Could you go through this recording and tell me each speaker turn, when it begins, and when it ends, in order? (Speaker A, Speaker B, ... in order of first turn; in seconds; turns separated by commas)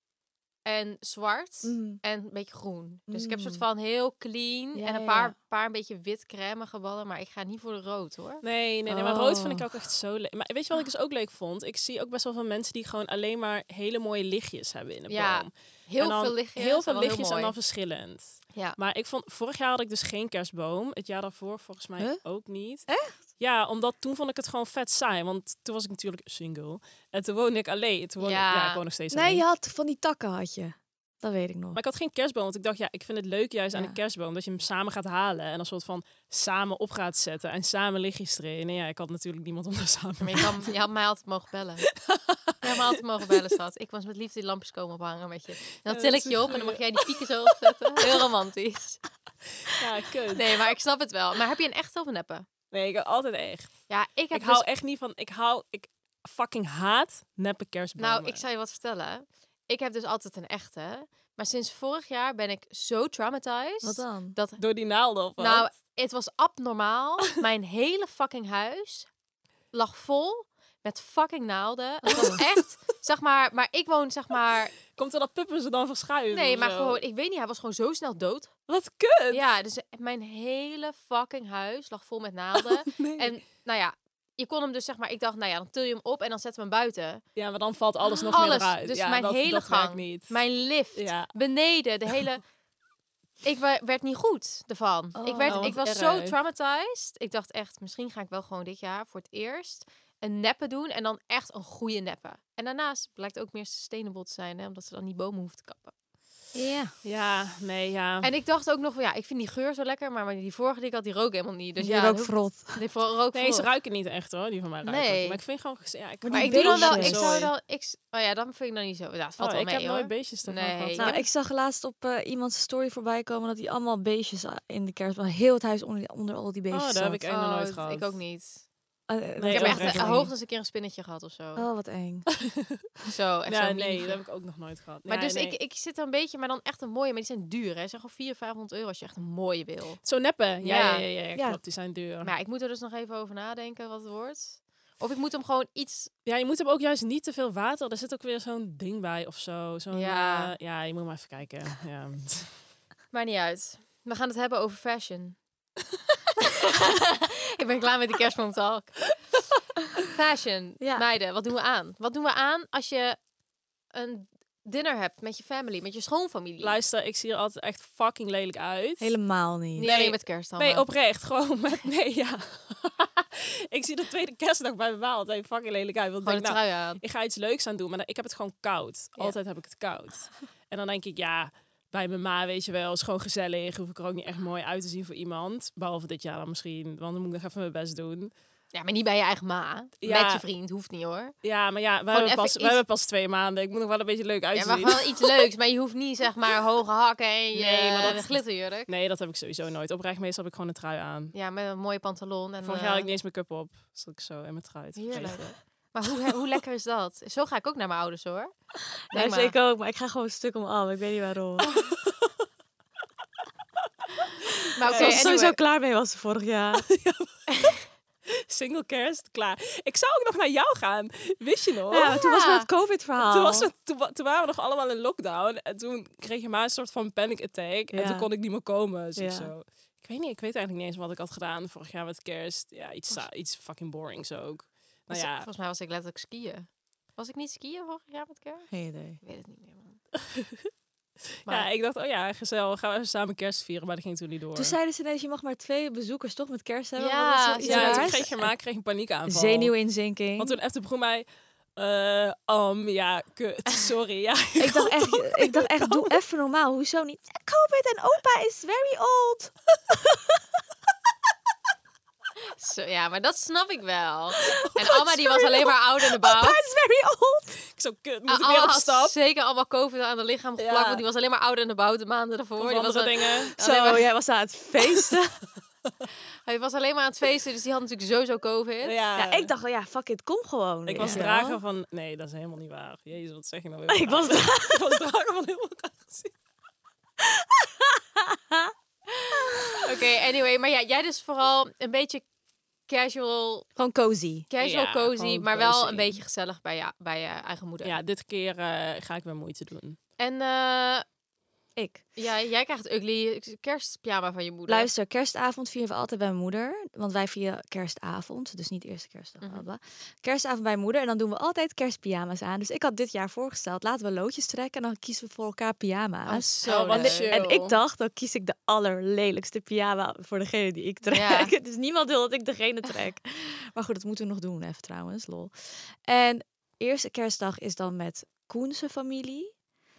Speaker A: 0.7-8.4, Speaker B: 1.6-2.0, Speaker B: 3.1-3.6, Speaker B: 4.8-5.3, Speaker C: 8.4-29.4, Speaker B: 8.9-9.7, Speaker A: 15.1-17.6, Speaker B: 22.9-23.2, Speaker A: 28.2-28.8, Speaker B: 29.1-31.8, Speaker C: 31.8-40.7, Speaker A: 40.2-41.9, Speaker C: 42.0-42.7, Speaker A: 42.6-49.0, Speaker C: 45.9-47.2, Speaker C: 49.6-50.5, Speaker A: 50.3-52.5, Speaker C: 52.7-58.4, Speaker A: 53.9-54.7, Speaker A: 58.0-64.6, Speaker B: 63.8-64.4, Speaker C: 64.6-65.7, Speaker A: 65.4-69.1, Speaker A: 69.7-74.7, Speaker C: 72.1-72.5, Speaker C: 74.9-77.0, Speaker A: 76.3-78.5, Speaker C: 78.7-79.4, Speaker A: 79.3-87.2, Speaker C: 82.6-83.3, Speaker C: 87.4-90.4, Speaker A: 88.3-92.4, Speaker C: 91.0-91.3, Speaker A: 93.4-105.9, Speaker B: 95.2-95.8, Speaker C: 95.5-96.3, Speaker B: 106.5-106.9, Speaker C: 107.0-108.3, Speaker A: 108.2-113.7, Speaker B: 111.8-112.8, Speaker C: 113.3-117.5, Speaker A: 114.8-115.4, Speaker B: 116.2-117.4, Speaker A: 116.3-121.2, Speaker C: 119.4-121.2, Speaker B: 121.0-127.2, Speaker C: 126.7-128.2, Speaker A: 127.3-128.7, Speaker B: 129.1-130.3, Speaker C: 129.4-130.2, Speaker A: 129.5-131.7, Speaker B: 131.6-132.3, Speaker A: 133.1-134.2, Speaker C: 133.5-135.6, Speaker A: 135.1-140.0, Speaker C: 140.0-142.3, Speaker A: 140.6-141.1, Speaker B: 141.3-141.6, Speaker A: 142.2-146.1, Speaker C: 146.2-152.5, Speaker A: 149.9-150.5, Speaker A: 153.1-155.4, Speaker A: 156.7-159.2, Speaker A: 160.1-163.2, Speaker A: 163.9-166.8, Speaker C: 166.6-169.2, Speaker B: 169.0-169.9, Speaker A: 169.8-170.9, Speaker C: 169.8-188.3, Speaker A: 176.2-177.0, Speaker A: 188.7-191.3, Speaker C: 190.0-190.4, Speaker C: 191.4-195.3, Speaker A: 192.1-192.8, Speaker A: 194.6-198.9, Speaker C: 197.5-201.3, Speaker A: 201.3-203.1, Speaker C: 202.6-205.6, Speaker A: 205.0-208.5, Speaker A: 209.1-209.6, Speaker B: 209.1-211.7, Speaker C: 211.7-212.3, Speaker A: 214.8-215.6, Speaker C: 214.9-215.4, Speaker B: 214.9-216.9, Speaker C: 216.8-217.8, Speaker C: 218.3-222.2, Speaker B: 221.9-223.7, Speaker A: 222.2-222.7, Speaker C: 223.2-235.5, Speaker B: 227.9-228.3, Speaker B: 229.2-229.5, Speaker A: 235.1-240.0, Speaker B: 238.7-239.2, Speaker C: 240.3-240.7, Speaker C: 241.5-244.8, Speaker B: 244.6-248.5, Speaker A: 247.0-248.3, Speaker C: 247.6-249.7, Speaker B: 249.3-250.6, Speaker C: 250.4-256.2, Speaker B: 254.6-260.4, Speaker A: 262.6-266.6, Speaker B: 266.1-267.6, Speaker C: 267.7-269.1, Speaker A: 268.3-274.1, Speaker C: 270.6-271.0, Speaker C: 272.6-273.5, Speaker B: 273.6-275.4, Speaker A: 276.5-279.0, Speaker C: 278.8-279.5, Speaker B: 279.2-281.6, Speaker C: 280.9-286.3, Speaker B: 283.9-285.0, Speaker B: 287.2-288.7, Speaker B: 289.3-289.8, Speaker A: 289.8-292.3, Speaker A: 292.9-293.7, Speaker B: 293.8-294.5, Speaker A: 294.5-298.0, Speaker C: 294.6-296.2, Speaker C: 297.8-300.0, Speaker A: 300.2-301.1, Speaker B: 301.8-302.0, Speaker A: 302.2-304.9, Speaker B: 304.7-329.5, Speaker A: 309.4-309.7, Speaker A: 316.3-317.4, Speaker C: 316.6-317.8, Speaker A: 321.1-321.5